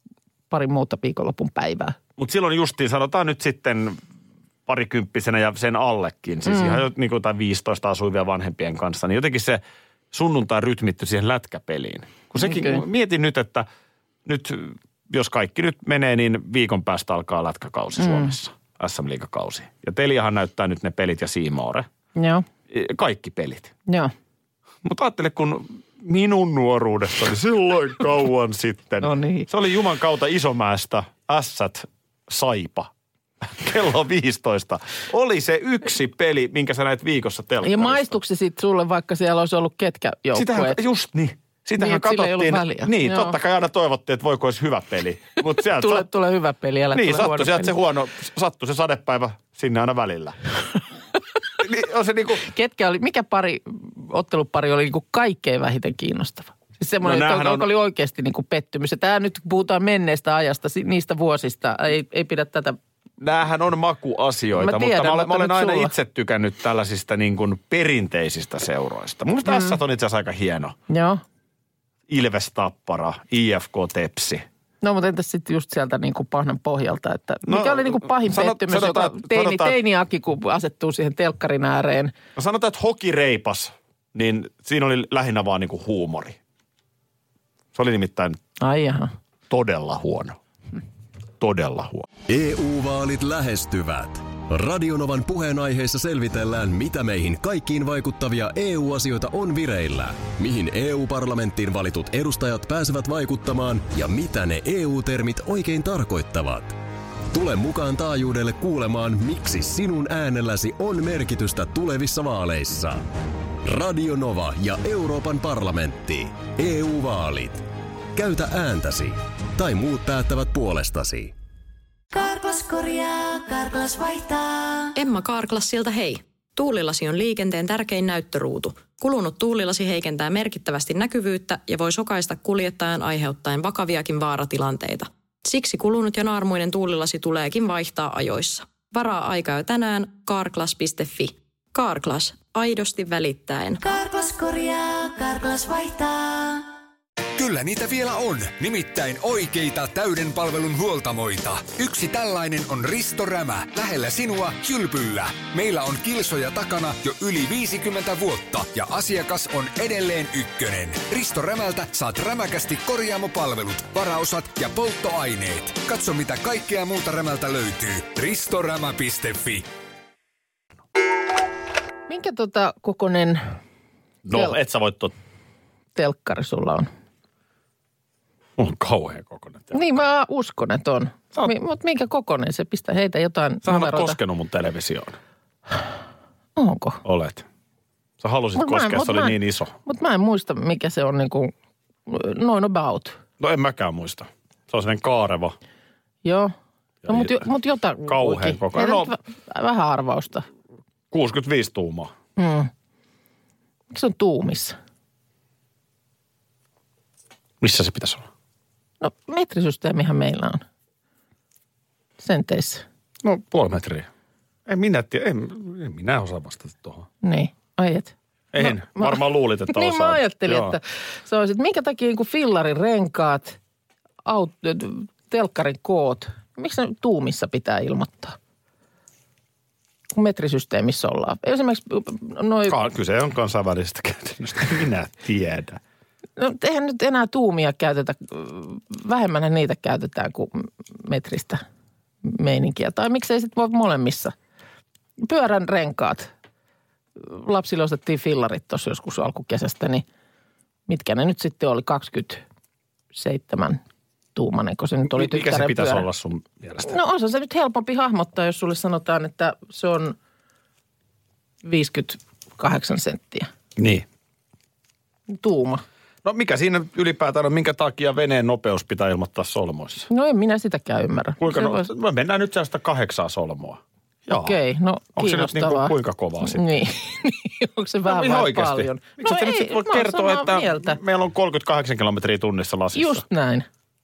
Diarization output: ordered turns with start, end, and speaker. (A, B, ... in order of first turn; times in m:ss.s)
0:00.5-0:02.0 A
0:02.2-0:04.0 B
0:04.6-0:13.7 B
0:06.5-0:06.8 A
0:12.4-0:12.8 A
0:14.2-0:21.9 B
0:18.0-0:18.3 A
0:22.2-0:22.4 A
0:22.7-0:23.7 B
0:24.8-0:32.9 B
0:29.0-0:29.5 A
0:33.4-0:38.2 B
0:37.6-0:40.8 A
0:40.3-0:46.1 B
0:41.8-0:43.4 A
0:45.6-0:47.8 A
0:46.9-0:50.4 B
0:51.6-0:52.4 B
0:52.4-1:02.8 A
0:57.0-0:57.7 B
1:03.2-1:10.8 B
1:04.6-1:05.9 A
1:09.4-1:09.8 A
1:10.9-1:11.2 A
1:12.1-1:14.4 B
1:14.8-1:22.1 A
1:17.4-1:19.8 B
1:22.4-1:26.4 B
1:27.7-1:28.4 B
1:28.6-1:29.1 A
1:29.5-1:30.4 B
1:31.4-1:32.0 B
1:32.3-1:46.8 C
1:47.3-1:53.0 C
1:53.6-2:01.3 C
2:02.1-2:04.9 D
2:05.0-2:23.8 E
2:23.8-2:26.7 D
2:27.4-2:49.6 F
2:52.1-2:53.4 A
2:54.2-2:55.1 B
2:55.9-2:56.9 A
2:58.6-2:59.9 B
2:59.7-3:04.2 A
3:03.6-3:05.2 B
3:06.6-3:07.0 A
3:07.0-3:07.4 B
3:08.2-3:09.7 B
3:08.6-3:11.5 A
3:12.1-3:13.2 A
3:13.4-3:15.5 B
3:16.2-3:16.5 A
3:17.0-3:17.5 B
3:17.1-3:20.4 A
3:18.0-3:19.1 B
3:21.1-3:22.1 B
3:22.4-3:22.7 A
3:23.9-3:24.8 A
3:27.6-3:28.3 B
3:29.0-3:30.6 A
3:32.2-3:32.8 A
3:33.2-3:34.1 B
3:34.7-3:37.1 B
3:37.2-3:43.6 A
3:38.5-3:40.8 B
3:44.2-3:48.4 A
3:50.1-3:52.8 A
3:52.7-3:55.8 B
3:56.4-4:01.6 A
4:02.2-4:04.3 A
4:05.2-4:06.3 A
4:07.2-4:10.0 A
4:10.9-4:12.4 A
4:13.1-4:13.8 A
4:14.3-4:16.0 A
4:15.1-4:17.0 B
4:16.8-4:20.2 A
4:21.6-4:23.5 A
4:23.8-4:24.0 B
4:25.3-4:25.8 A
4:26.2-4:30.1 B
4:30.1-4:31.9 A
4:31.4-4:34.6 B
4:34.3-4:41.0 A
4:35.2-4:36.6 B
4:38.0-4:43.2 B
4:42.9-4:43.7 A